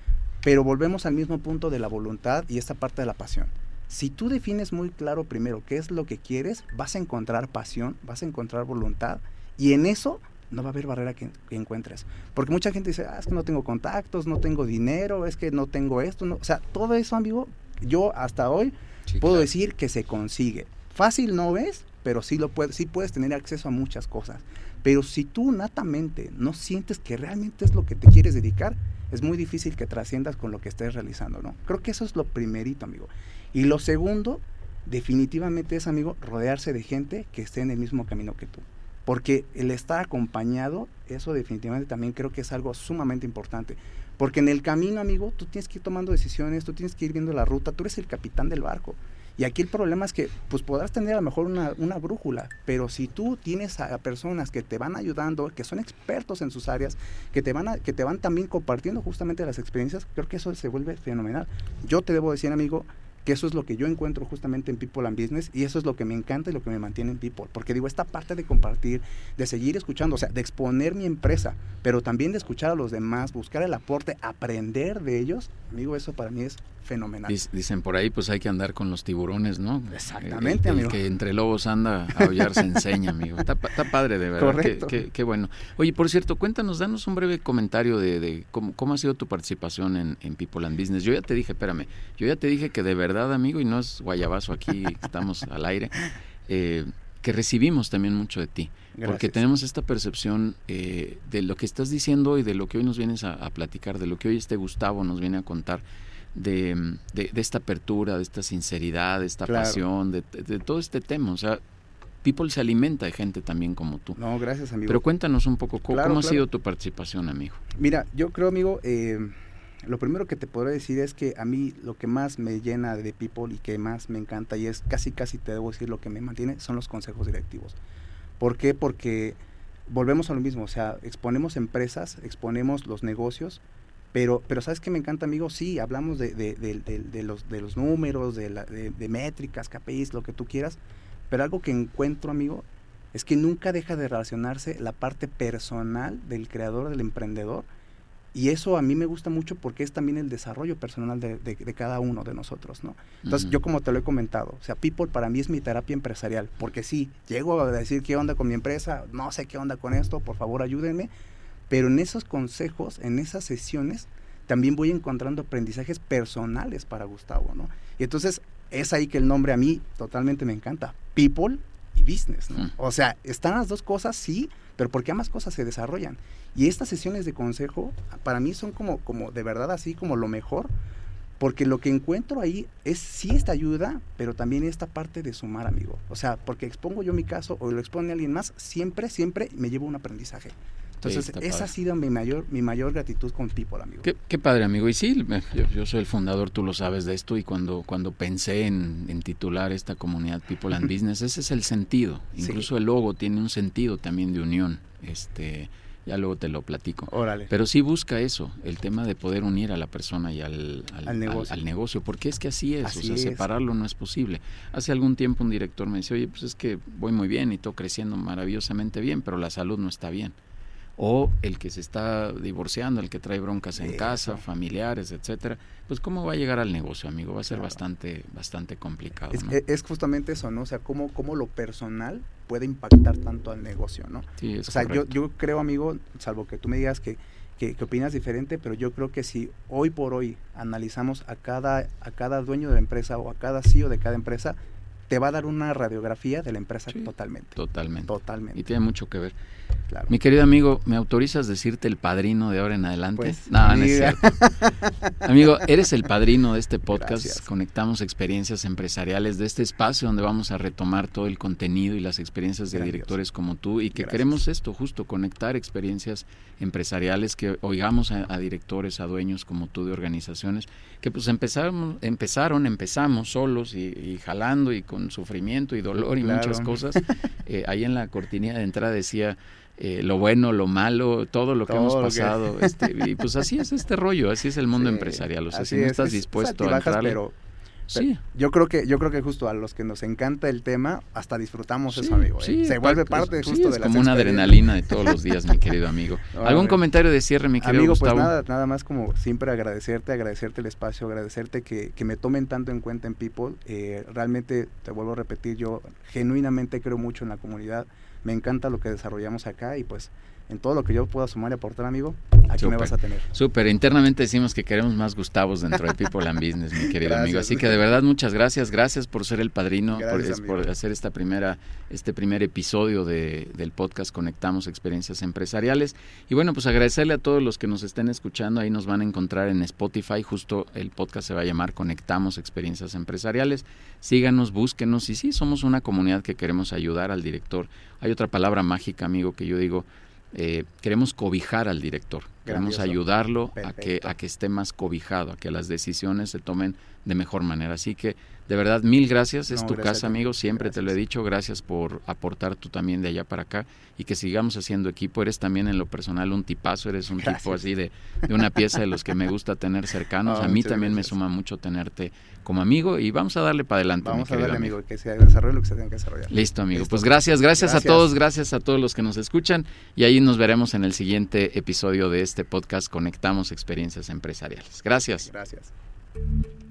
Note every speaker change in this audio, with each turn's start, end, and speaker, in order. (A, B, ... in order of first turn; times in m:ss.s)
0:00.4-1:17.4 A
0:19.1-0:19.5 B
1:17.3-1:45.8 B
1:19.9-1:21.0 A
1:24.4-1:25.0 A
1:39.0-1:39.4 A
1:46.3-1:51.6 B
1:49.5-1:49.8 A
1:52.2-1:54.2 B
1:54.2-1:55.1 A
1:54.9-1:57.6 B
1:55.9-1:56.4 A
1:57.8-1:59.3 A
1:59.8-2:07.8 A
2:08.4-2:13.6 A
2:14.1-2:20.8 A
2:21.3-2:27.7 A
2:28.3-2:41.1 A
2:33.2-2:33.6 B
2:41.7-3:00.7 A
3:01.4-3:14.1 A
3:11.0-3:11.7 B
3:14.0-3:40.4 B
3:22.4-3:22.7 A
3:27.1-3:27.5 A
3:31.0-3:31.6 A
3:32.8-3:33.4 A
3:41.0-3:49.6 B
3:43.8-3:44.4 A
3:47.5-3:47.8 A
3:49.3-4:04.6 A
3:54.4-3:55.1 B
4:05.1-4:07.6 A
4:06.9-4:09.4 B
4:08.1-4:08.6 A
4:10.1-4:14.5 B
4:13.2-4:15.2 A
4:15.2-4:47.2 B
4:16.9-4:17.4 A
4:22.7-4:23.1 A
4:23.9-4:24.3 A
4:36.2-4:37.0 A
4:41.7-4:42.9 A
4:44.8-4:47.4 A
4:47.9-4:48.2 B
4:47.9-4:55.2 A
4:51.9-4:58.3 B
4:56.3-4:56.8 A
4:57.6-5:13.3 A
5:12.6-6:04.8 B
5:16.9-5:17.8 A
5:19.9-5:20.7 A
5:42.5-5:43.0 A
5:43.6-5:44.1 A
5:49.5-5:50.9 A
5:57.2-5:57.6 A
6:00.2-6:01.2 A
6:04.0-6:08.1 A
6:06.3-6:15.3 B
6:15.3-6:15.7 A